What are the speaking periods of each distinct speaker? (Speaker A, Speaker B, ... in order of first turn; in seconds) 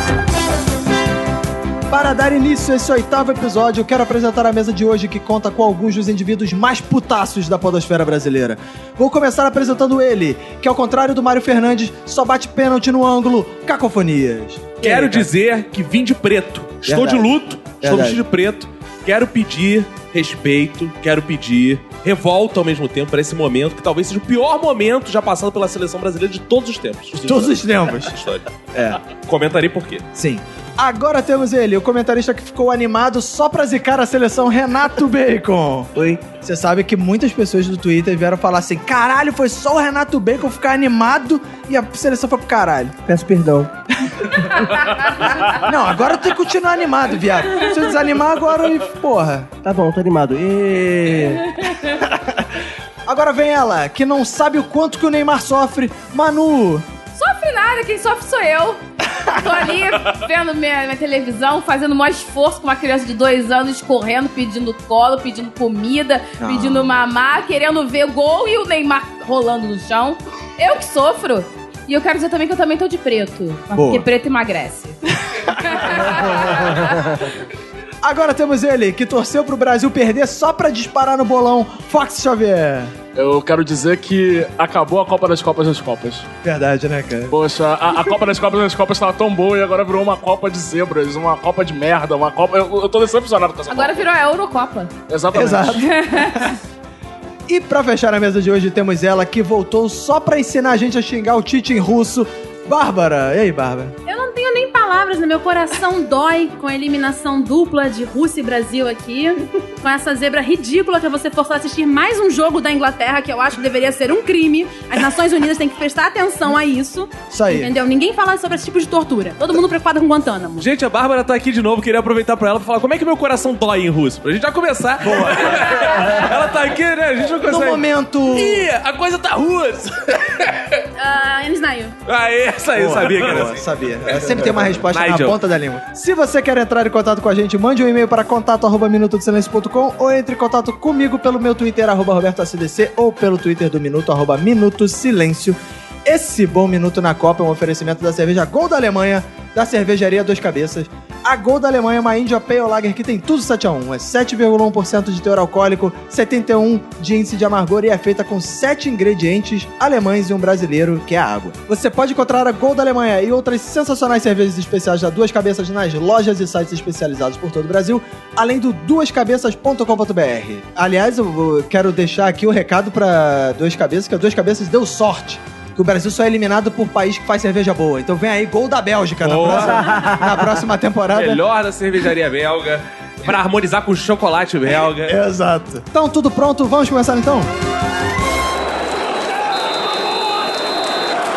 Speaker A: 1.9-15.3, 16.8-18.2, 27.2-28.1, 28.7-29.0, 30.1-43.0, 44.1-44.6, 45.5-49.5, 52.0-56.9, 66.4-66.9, 73.7-74.0, 75.2-77.0, 78.0-82.9, 86.4-87.3, 95.3-96.6, 97.5-103.9, 117.3-117.7, 125.0-126.3, 127.4-128.7, 132.7-181.4, 184.7-187.5
Speaker B: 14.8-28.4, 29.1-30.1, 120.6-130.8, 132.1-134.3, 134.8-135.4, 179.2-179.9, 181.1-185.2
Speaker C: 36.0-36.3, 43.0-43.7, 49.6-51.6, 179.4-180.5
Speaker D: 51.6-52.0, 57.1-75.0, 75.5-76.9, 93.7-95.0, 95.8-96.5
Speaker E: 83.2-86.3, 87.3-94.1, 95.1-95.8
Speaker F: 104.0-120.7, 131.0-131.9